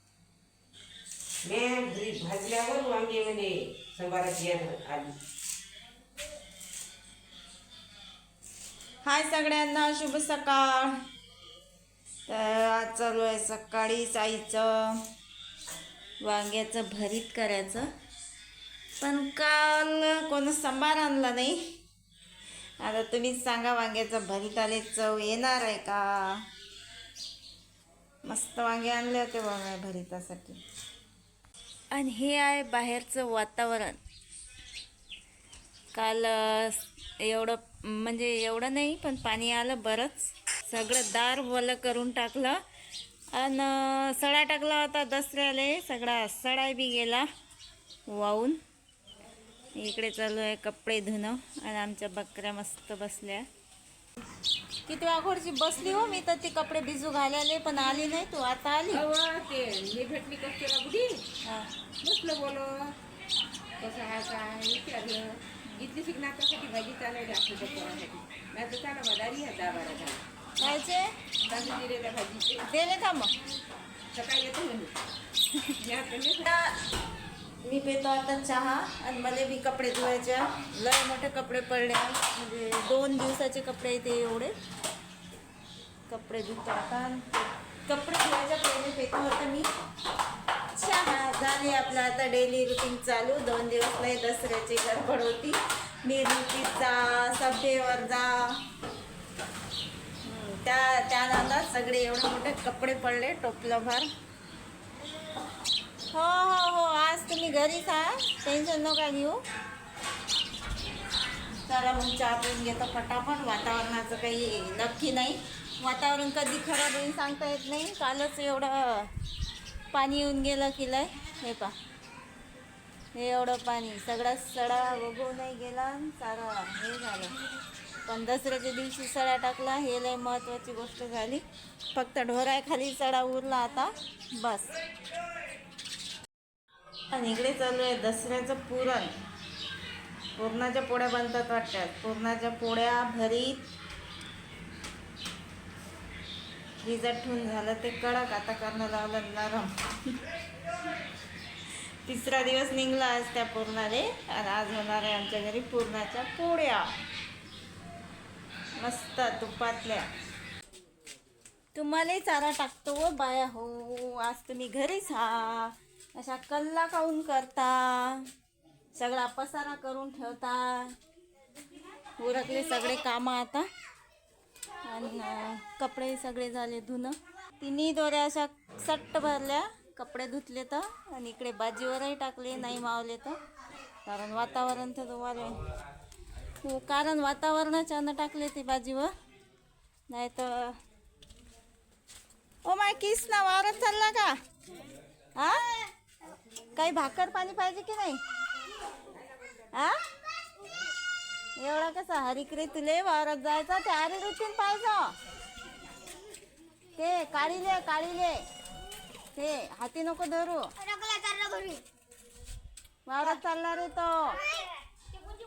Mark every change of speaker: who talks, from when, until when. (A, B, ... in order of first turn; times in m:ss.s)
0:01.5-0:05.2 A
0:09.0-0:11.0 B
0:12.3-0:15.0 B
0:16.2-0:17.9 B
0:19.0-0:21.7 B
0:22.8-0:26.4 B
0:28.2-0:30.6 B
0:31.9-0:34.0 B
0:35.9-0:42.6 B
0:43.3-0:47.3 B
0:48.1-0:48.6 B
0:49.8-0:53.5 B
0:54.9-0:59.0 B
0:58.9-1:01.2 A
1:01.4-1:01.7 B
1:02.0-1:02.9 A
1:03.8-1:10.2 A
1:10.6-1:11.1 B
1:11.4-1:12.6 A
1:12.6-1:13.4 B
1:14.1-1:15.0 A
1:15.8-1:16.5 A
1:16.4-1:16.8 B
1:17.6-1:24.5 B
1:26.1-1:29.7 B
1:30.8-1:38.6 B
1:40.2-1:44.1 B
1:46.1-1:49.4 B
1:51.6-1:59.1 B
1:59.9-2:01.7 B
2:03.2-2:07.4 B
2:08.1-2:11.4 B
2:12.0-2:14.8 B
2:17.1-2:19.1 B
2:20.4-2:23.7 B
2:26.8-2:30.1 B
2:32.0-2:36.9 B
2:38.8-2:40.1 B
2:41.8-2:48.3 B
2:49.0-2:51.0 B
2:52.2-2:53.7 B
2:54.8-3:03.4 B
3:04.1-3:05.6 B
3:06.6-3:09.1 B
3:10.1-3:10.8 B
3:12.6-3:14.4 B
3:15.4-3:15.9 B
3:16.8-3:18.2 B
3:19.7-3:20.0 B
3:21.6-3:25.2 B
3:27.0-3:28.4 B
3:29.4-3:30.7 B
3:33.1-3:34.4 B